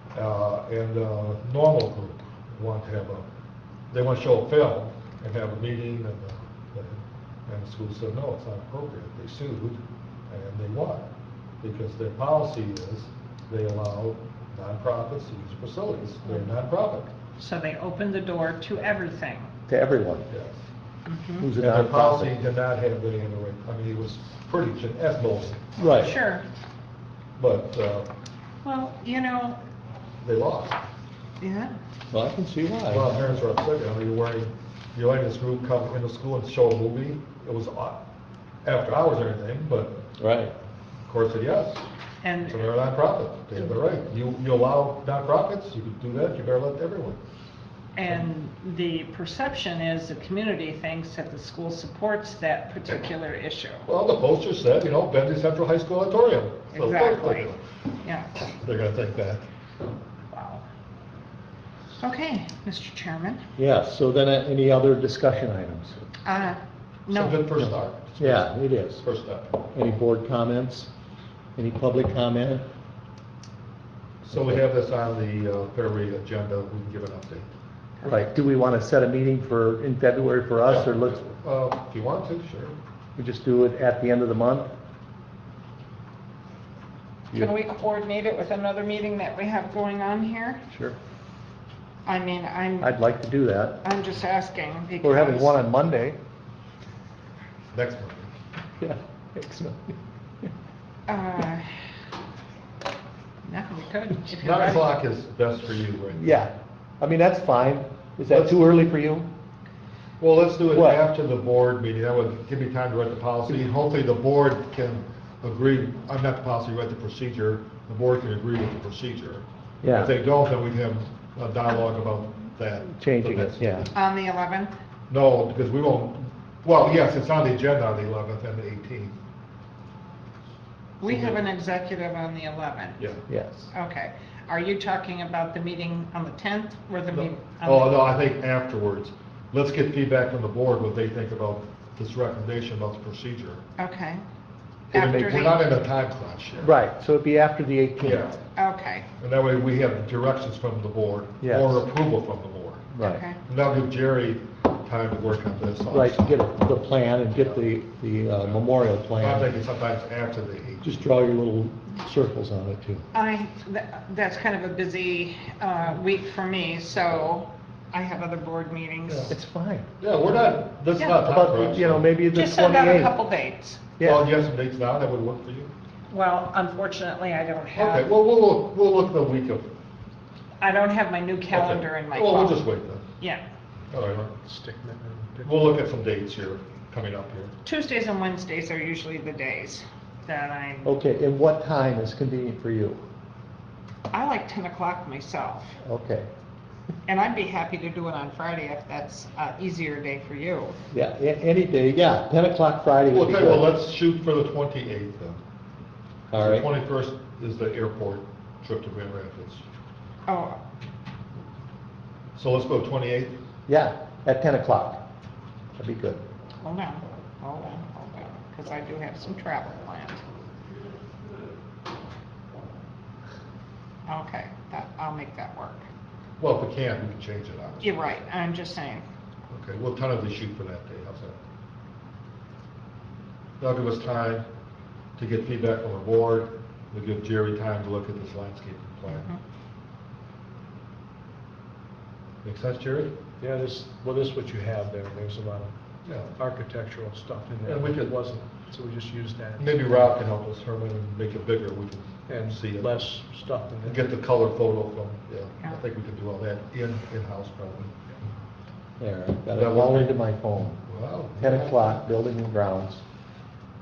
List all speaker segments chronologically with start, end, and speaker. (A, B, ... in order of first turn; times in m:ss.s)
0:00.1-0:03.2 A
0:03.9-0:11.0 A
0:11.6-0:17.1 A
0:17.4-0:19.5 B
0:19.7-0:20.3 C
0:20.3-0:20.6 A
0:21.0-0:21.5 B
0:21.4-0:22.4 C
0:21.6-0:26.1 A
0:25.8-0:26.2 C
0:25.9-0:26.4 B
0:27.4-0:28.1 A
0:28.6-0:29.6 B
0:30.2-0:30.8 A
0:31.4-0:31.7 B
0:32.1-0:33.4 C
0:32.9-0:38.0 A
0:38.6-0:40.0 A
0:40.2-0:40.5 C
0:41.0-0:41.8 A
0:42.2-0:42.7 B
0:42.4-0:47.2 A
0:48.0-0:53.8 B
0:53.9-0:57.6 A
0:56.7-0:57.5 B
0:58.0-0:58.3 B
0:58.5-0:59.4 A
1:00.3-1:00.6 B
1:02.0-1:03.4 B
1:03.6-1:06.0 C
1:06.2-1:07.5 B
1:07.1-1:09.7 A
1:07.6-1:09.0 C
1:09.7-1:10.9 C
1:11.6-1:12.7 C
1:14.2-1:17.5 A
1:14.3-1:14.6 C
1:18.0-1:21.2 C
1:20.7-1:22.8 A
1:23.2-1:24.7 C
1:27.3-1:30.6 B
1:30.7-1:31.0 C
1:32.1-1:32.9 B
1:32.8-1:33.8 C
1:33.8-1:35.6 B
1:35.0-1:36.2 C
1:37.7-1:38.3 A
1:38.8-1:40.5 C
1:41.1-1:41.7 B
1:43.4-1:44.9 B
1:44.4-1:46.5 A
1:46.1-1:49.3 C
1:48.3-1:48.6 A
1:50.2-2:03.9 A
1:50.7-1:51.0 C
1:59.8-2:00.1 C
2:03.0-2:03.9 C
2:03.9-2:04.7 B
2:05.1-2:09.2 A
2:11.0-2:13.2 B
2:11.0-2:11.4 A
2:13.3-2:13.7 C
2:13.7-2:18.0 B
2:17.1-2:23.6 A
2:23.8-2:24.2 B
2:24.9-2:25.6 B
2:24.9-2:26.7 A
2:25.0-2:25.5 C
2:26.6-2:28.3 C
2:28.0-2:28.4 A
2:28.6-2:29.1 B
2:29.2-2:32.9 A
2:31.4-2:31.8 C
2:32.9-2:33.2 C
2:33.0-2:33.4 B
2:33.4-2:36.3 A
2:35.9-2:39.5 C
2:39.2-2:41.0 A
2:40.8-2:43.1 C
2:43.1-2:49.3 B
2:49.1-2:49.3 A
2:49.3-2:49.9 C
2:50.0-2:52.1 A
2:51.2-2:53.2 C
2:52.3-2:53.8 B
2:54.0-2:54.3 C
2:54.0-2:55.7 A
2:56.1-2:58.1 B
2:57.7-2:59.7 A
3:00.6-3:02.7 B
3:01.5-3:03.0 A
3:03.9-3:04.3 A
3:04.4-3:05.8 D
3:05.4-3:07.5 A
3:07.6-3:10.9 B
3:10.8-3:13.0 C
3:14.1-3:15.8 B
3:15.8-3:16.3 C
3:17.1-3:20.8 B
3:20.9-3:23.7 C
3:23.1-3:25.4 A
3:26.3-3:26.7 C
3:26.3-3:29.6 A
3:30.3-3:30.6 B
3:32.4-3:33.4 A
3:33.7-3:35.0 C
3:35.8-3:36.2 C
3:36.6-3:40.2 B
3:44.1-3:45.8 B
3:46.4-3:48.0 A
3:47.8-3:49.1 B
3:49.5-3:51.4 A
3:53.6-3:54.5 A
3:55.2-3:59.3 A
3:59.1-3:59.4 B
4:02.4-4:03.1 A
4:03.4-4:05.8 D
4:06.0-4:06.3 A
4:06.4-4:10.2 D
4:07.7-4:08.2 A
4:09.6-4:12.9 A
4:12.3-4:14.0 D
4:13.8-4:18.0 A
4:19.0-4:20.8 C
4:19.5-4:20.2 A
4:20.9-4:22.0 A
4:21.4-4:23.0 C